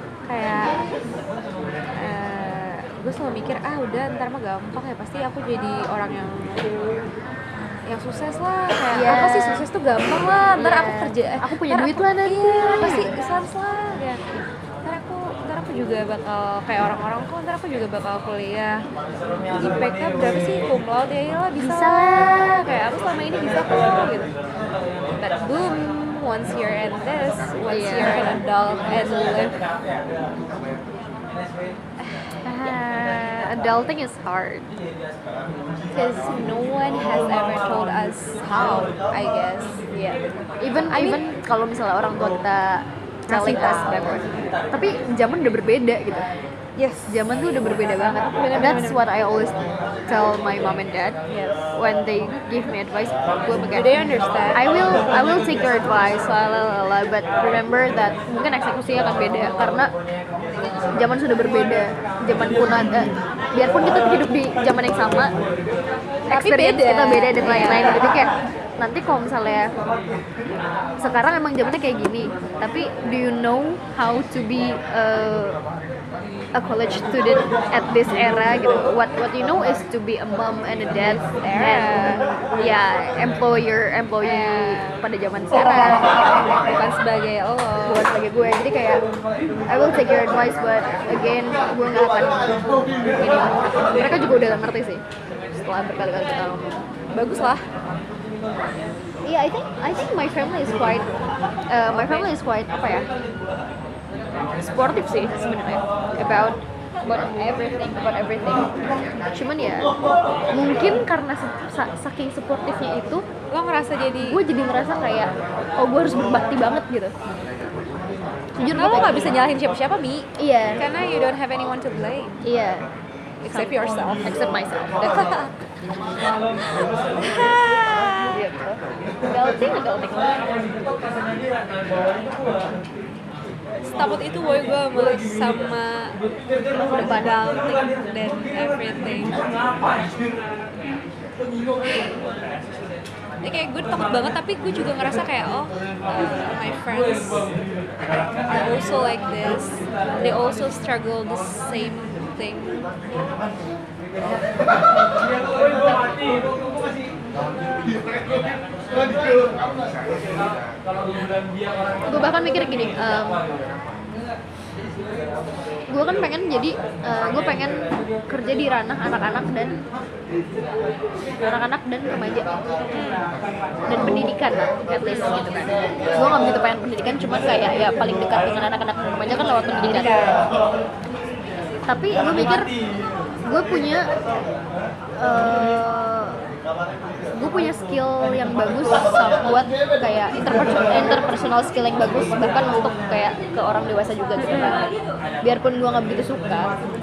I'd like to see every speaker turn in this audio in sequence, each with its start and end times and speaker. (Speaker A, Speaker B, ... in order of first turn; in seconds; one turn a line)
Speaker A: 0.3-0.8
Speaker A: 1.9-6.8
Speaker A: 7.9-18.8
Speaker B: 8.9-9.7
Speaker B: 10.6-13.1
Speaker A: 19.5-24.3
Speaker B: 21.6-22.7
Speaker A: 25.2-29.6
Speaker B: 27.7-28.4
Speaker A: 32.0-34.6
Speaker B: 34.2-34.6
Speaker A: 35.9-39.8
Speaker B: 39.9-46.3
Speaker A: 40.9-41.2
Speaker A: 43.3-44.3
Speaker A: 46.8-47.2
Speaker B: 47.1-49.5
Speaker A: 48.3-49.0
Speaker B: 50.1-51.2
Speaker A: 51.3-51.6
Speaker B: 51.7-54.0
Speaker A: 53.7-54.6
Speaker B: 54.5-59.9
Speaker B: 60.9-65.3
Speaker B: 66.3-69.7
Speaker A: 66.3-68.0
Speaker B: 71.0-75.6
Speaker B: 76.5-86.2
Speaker A: 81.0-82.3
Speaker A: 84.2-85.0
Speaker A: 85.5-86.1
Speaker A: 86.6-88.0
Speaker B: 87.8-89.0
Speaker B: 89.7-97.6
Speaker A: 97.2-97.6
Speaker B: 99.2-101.1
Speaker B: 101.7-103.0
Speaker A: 101.9-102.3
Speaker B: 104.6-109.9
Speaker B: 110.5-113.2
Speaker A: 113.5-114.4
Speaker B: 114.2-117.1
Speaker B: 118.6-119.3
Speaker A: 118.7-122.4
Speaker B: 120.4-120.8
Speaker B: 122.4-122.9
Speaker A: 123.4-124.3
Speaker B: 123.5-125.2
Speaker A: 125.0-125.5
Speaker A: 126.6-128.3
Speaker B: 128.3-130.6
Speaker A: 133.8-136.1
Speaker B: 136.8-137.4
Speaker A: 136.8-139.3
Speaker A: 143.4-147.5
Speaker A: 148.5-152.8
Speaker B: 162.1-163.4
Speaker B: 165.9-169.8
Speaker B: 171.4-172.5
Speaker A: 172.9-173.3
Speaker B: 173.9-180.1
Speaker A: 175.1-175.3
Speaker A: 179.8-180.4
Speaker B: 181.9-182.7
Speaker B: 183.4-184.1
Speaker B: 185.2-186.4
Speaker B: 187.3-194.9
Speaker A: 194.4-194.8
Speaker B: 195.4-196.7